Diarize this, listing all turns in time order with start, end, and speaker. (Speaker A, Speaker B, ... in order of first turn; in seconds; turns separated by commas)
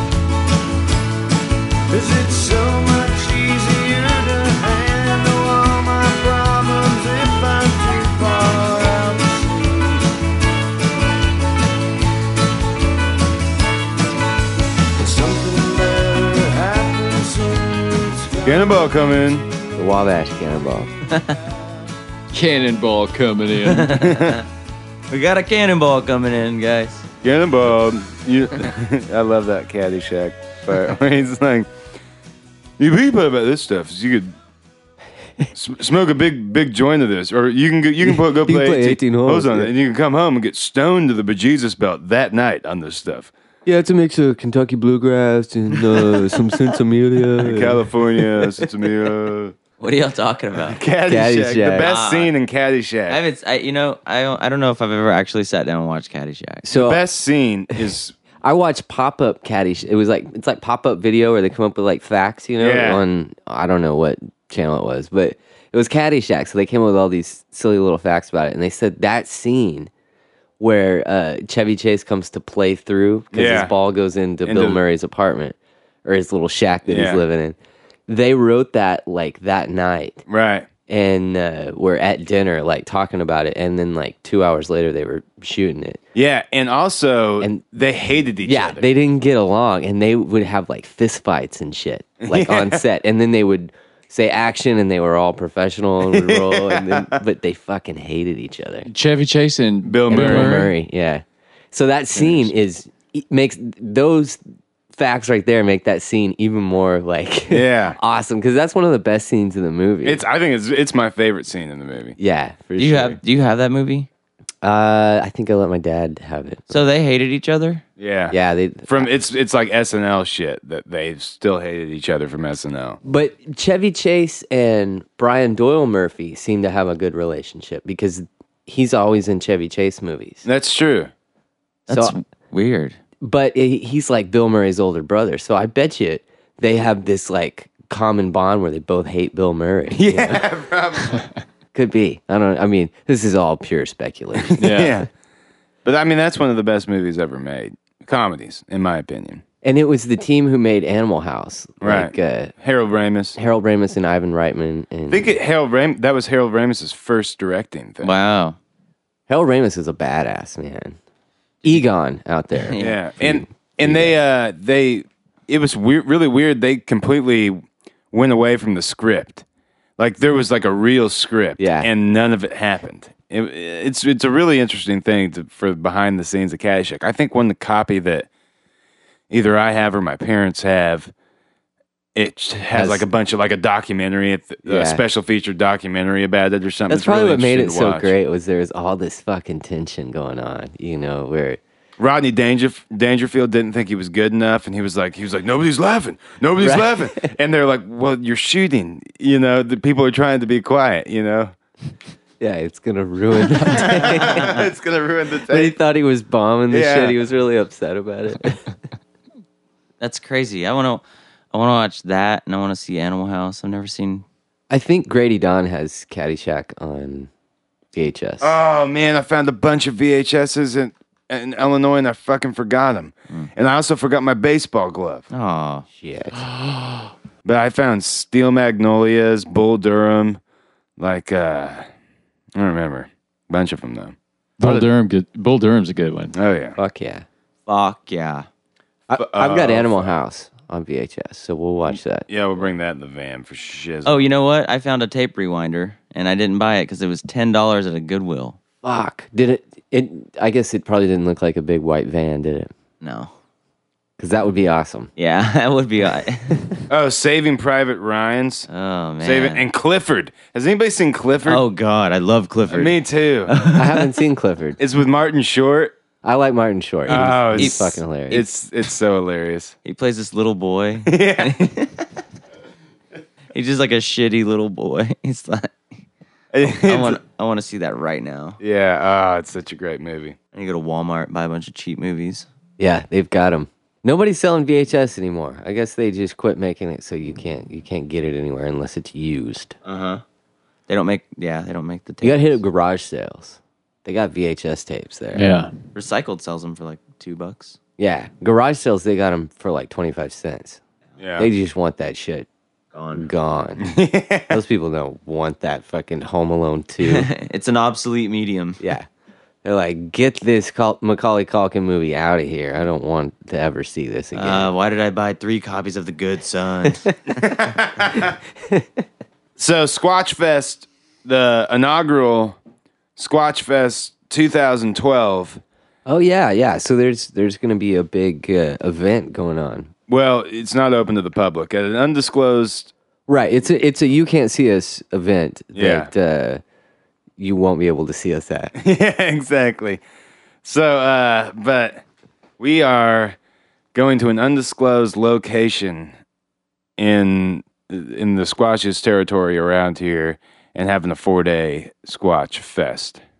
Speaker A: 1.9-10.0, Speaker A: 15.0-18.4, Speaker B: 18.4-19.5, Speaker C: 19.7-20.9, Speaker D: 21.1-21.4, Speaker E: 22.3-24.1, Speaker D: 23.7-24.4, Speaker B: 24.0-24.4, Speaker D: 25.1-27.1, Speaker B: 27.2-31.7, Speaker B: 32.8-34.3, Speaker B: 35.5-43.3, Speaker C: 38.0-39.7, Speaker C: 43.6-48.7, Speaker B: 47.4-49.5, Speaker D: 49.8-50.8, Speaker B: 50.7-53.2, Speaker C: 51.0-51.9, Speaker D: 51.8-52.3, Speaker D: 53.1-56.6, Speaker C: 56.6-57.0, Speaker B: 56.7-58.1, Speaker C: 57.7-69.9, Speaker B: 62.6-63.0, Speaker C: 70.6-80.2, Speaker B: 73.3-73.7, Speaker B: 74.4-74.8, Speaker B: 76.9-77.2, Speaker B: 80.3-80.7, Speaker C: 80.9-86.0, Speaker B: 86.1-88.8, Speaker C: 87.4-87.7, Speaker C: 88.4-98.9, Speaker B: 92.2-92.8, Speaker B: 96.1-97.2, Speaker E: 98.9-100.7, Speaker B: 99.8-100.7, Speaker C: 100.1-104.4, Speaker E: 102.2-102.4, Speaker C: 104.9-110.2, Speaker B: 107.5-108.0, Speaker B: 110.0-112.2, Speaker C: 112.2-113.2, Speaker D: 112.8-114.1, Speaker C: 114.6-116.8, Speaker D: 116.7-117.8, Speaker B: 118.0-123.0, Speaker C: 118.3-119.1, Speaker C: 123.0-130.4, Speaker B: 130.4-131.1, Speaker C: 131.9-132.1, Speaker D: 131.9-133.0, Speaker C: 133.2-140.5, Speaker B: 139.9-141.3, Speaker C: 141.7-144.7, Speaker B: 144.4-145.1, Speaker E: 144.6-145.0, Speaker B: 145.8-149.4, Speaker C: 149.6-152.5, Speaker B: 151.8-153.4, Speaker C: 153.3-155.3, Speaker B: 155.1-158.2, Speaker D: 158.0-158.6, Speaker C: 159.3-161.0, Speaker C: 161.6-164.2, Speaker D: 162.6-162.9, Speaker B: 162.8-169.4, Speaker B: 170.0-178.3, Speaker C: 171.6-171.9, Speaker B: 179.3-181.1, Speaker B: 182.1-188.1, Speaker C: 182.7-183.0, Speaker C: 184.6-185.0, Speaker C: 186.9-191.6, Speaker B: 192.0-201.5, Speaker C: 196.6-197.3, Speaker C: 202.4-204.7, Speaker B: 203.6-205.7, Speaker C: 205.5-208.7, Speaker B: 206.7-207.2, Speaker D: 210.0-214.2, Speaker C: 214.7-217.3, Speaker C: 217.9-218.5, Speaker B: 218.4-225.3, Speaker D: 225.3-225.8, Speaker C: 226.0-226.4, Speaker B: 227.4-230.4, Speaker B: 231.0-231.9, Speaker B: 232.5-234.8, Speaker E: 234.6-236.3, Speaker B: 236.3-236.8, Speaker C: 236.8-237.2, Speaker D: 237.7-238.5, Speaker C: 239.1-242.3, Speaker B: 239.2-240.1, Speaker B: 242.3-244.2, Speaker D: 244.0-248.6, Speaker C: 248.8-252.7, Speaker D: 253.0-253.3, Speaker C: 254.2-255.1, Speaker D: 255.2-256.6, Speaker B: 256.9-258.7, Speaker D: 258.7-259.6, Speaker B: 259.2-261.6, Speaker D: 261.4-264.1, Speaker B: 262.7-263.5, Speaker C: 263.6-264.8, Speaker B: 264.8-265.9, Speaker C: 266.2-268.4, Speaker B: 267.1-269.7, Speaker D: 267.1-268.5, Speaker D: 269.8-272.0, Speaker B: 271.1-271.7, Speaker D: 273.5-275.7, Speaker B: 276.5-277.2, Speaker D: 276.6-278.6, Speaker B: 278.6-280.4, Speaker D: 280.5-282.5, Speaker C: 282.8-289.8, Speaker D: 289.8-290.2, Speaker D: 290.9-292.6, Speaker C: 292.2-295.5, Speaker E: 295.3-295.7, Speaker D: 295.9-297.8, Speaker C: 298.0-300.8, Speaker B: 301.2-301.5, Speaker C: 301.4-302.5, Speaker D: 302.9-303.3, Speaker C: 303.1-304.0, Speaker B: 303.8-304.6, Speaker C: 304.5-307.3, Speaker D: 307.0-308.8, Speaker C: 308.8-309.1, Speaker C: 309.6-314.7, Speaker D: 314.3-317.1, Speaker B: 317.4-318.3, Speaker C: 318.6-318.9, Speaker B: 319.6-322.6, Speaker B: 323.2-325.6, Speaker C: 326.1-329.9, Speaker B: 330.1-332.9, Speaker C: 333.3-336.6, Speaker B: 335.7-336.1, Speaker C: 337.4-338.7, Speaker B: 338.8-340.0, Speaker B: 340.6-342.0, Speaker B: 342.6-343.4, Speaker B: 343.9-346.1, Speaker B: 347.0-353.2